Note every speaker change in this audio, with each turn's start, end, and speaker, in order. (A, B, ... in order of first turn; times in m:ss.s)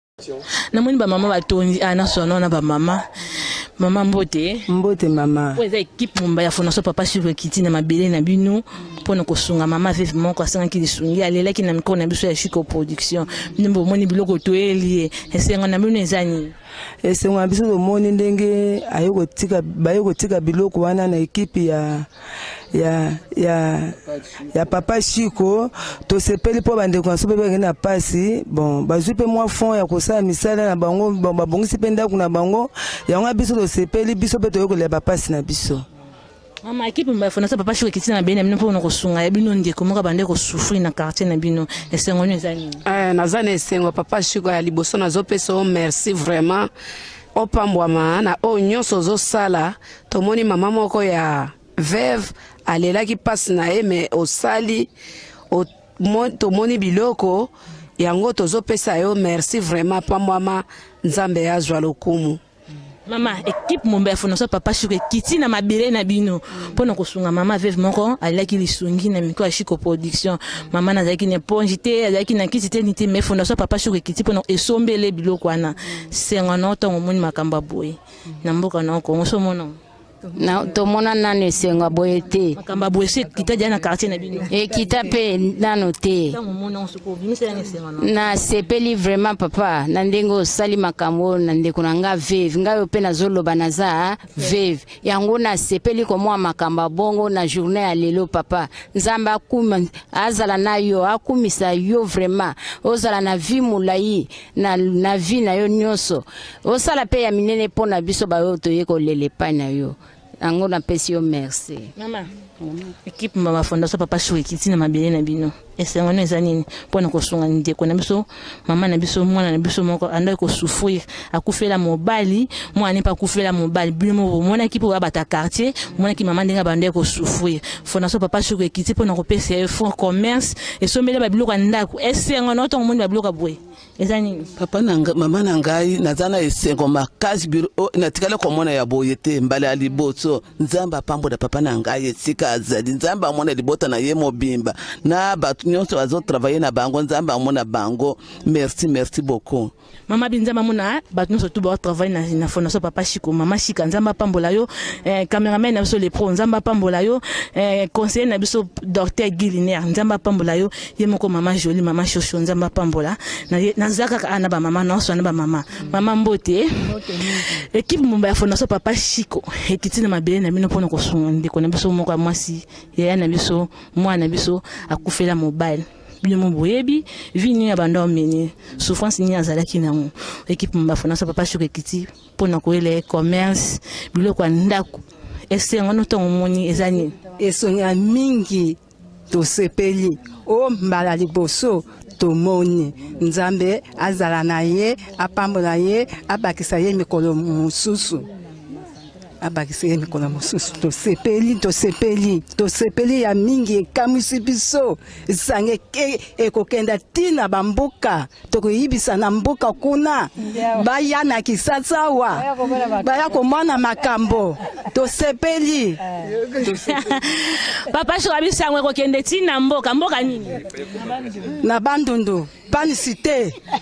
0:00.7-0:03.0 A
0:03.8-0:04.6 A
0:04.7-0:05.6 B
0:05.6-0:16.5 A
0:17.0-0:22.1 B
0:22.7-0:24.0 B
0:24.5-0:35.8 B
0:36.6-0:42.8 A
0:42.9-0:46.7 C
0:47.4-0:54.9 C
0:55.5-1:02.4 C
1:03.1-1:19.8 A
1:20.4-1:22.6 D
1:22.6-1:24.5 A
1:24.5-1:26.4 D
1:26.3-1:28.1 A
1:28.0-1:51.9 D
1:52.0-1:52.3 A
1:53.0-2:14.5 A
2:14.6-2:29.7 E
2:30.1-3:07.1 A
3:07.4-3:08.8 F
3:09.3-3:18.2 F
3:19.4-3:36.0 F
3:36.7-3:40.6 A
3:41.6-3:43.5 F